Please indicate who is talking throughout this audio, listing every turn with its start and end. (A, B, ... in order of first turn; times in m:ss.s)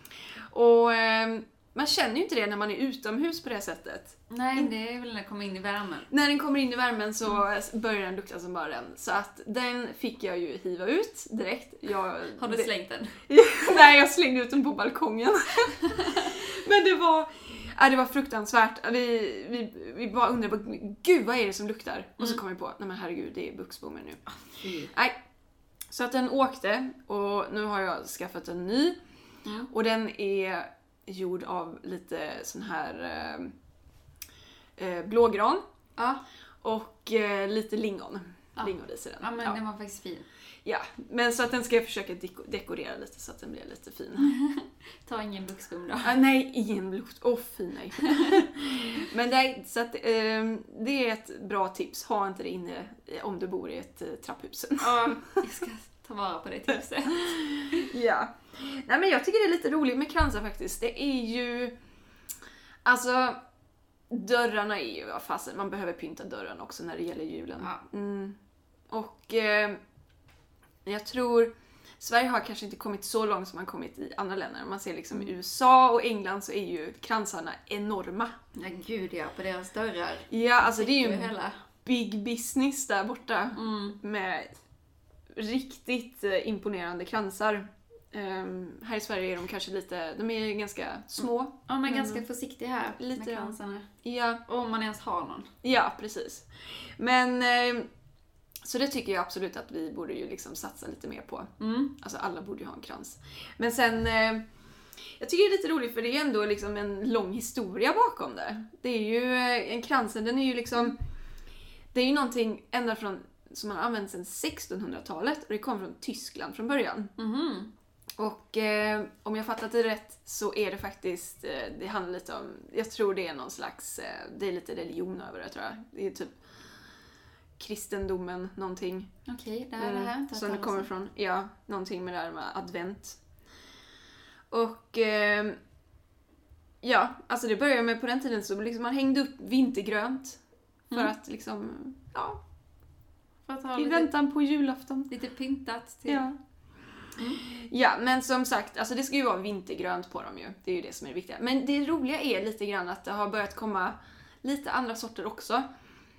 0:00.5-0:04.7 A
0:04.3-0:06.1 B
0:06.1-0:12.7 A
0:12.4-0:13.2 B
0:13.3-0:24.2 A
0:15.8-0:16.3 B
0:24.4-0:24.9 B
0:25.9-0:29.0 A
0:29.4-0:29.7 B
0:29.7-0:33.5 A
0:34.8-0:35.6 A
0:36.0-0:36.2 B
0:36.6-0:39.6 A
0:38.6-0:40.2 B
0:40.6-0:44.3 A
0:44.2-0:46.2 B
0:46.0-0:55.4 A
0:48.0-0:48.4 B
0:54.8-0:57.9 B
0:57.1-1:01.8 A
1:02.8-1:03.4 A
1:04.1-1:08.4 A
1:08.9-1:09.8 A
1:10.8-1:18.3 A
1:18.5-1:21.6 B
1:20.3-1:21.3 A
1:21.8-1:24.5 A
1:23.5-1:24.0 B
1:25.3-1:32.2 A
1:31.7-1:33.9 B
1:33.0-1:34.4 A
1:34.5-1:35.5 B
1:35.6-1:37.9 A
1:38.6-1:44.4 A
1:41.6-1:41.9 B
1:45.2-1:51.0 A
1:51.9-1:57.1 A
1:57.2-1:57.7 B
1:58.2-2:06.4 A
2:07.6-2:09.1 A
2:09.3-2:10.9 B
2:09.8-2:13.2 A
2:14.5-2:15.6 A
2:16.8-2:20.4 A
2:20.9-2:22.4 A
2:23.5-2:24.1 B
2:23.8-2:25.1 A
2:25.1-2:26.2 B
2:26.1-2:26.4 A
2:27.4-2:35.6 A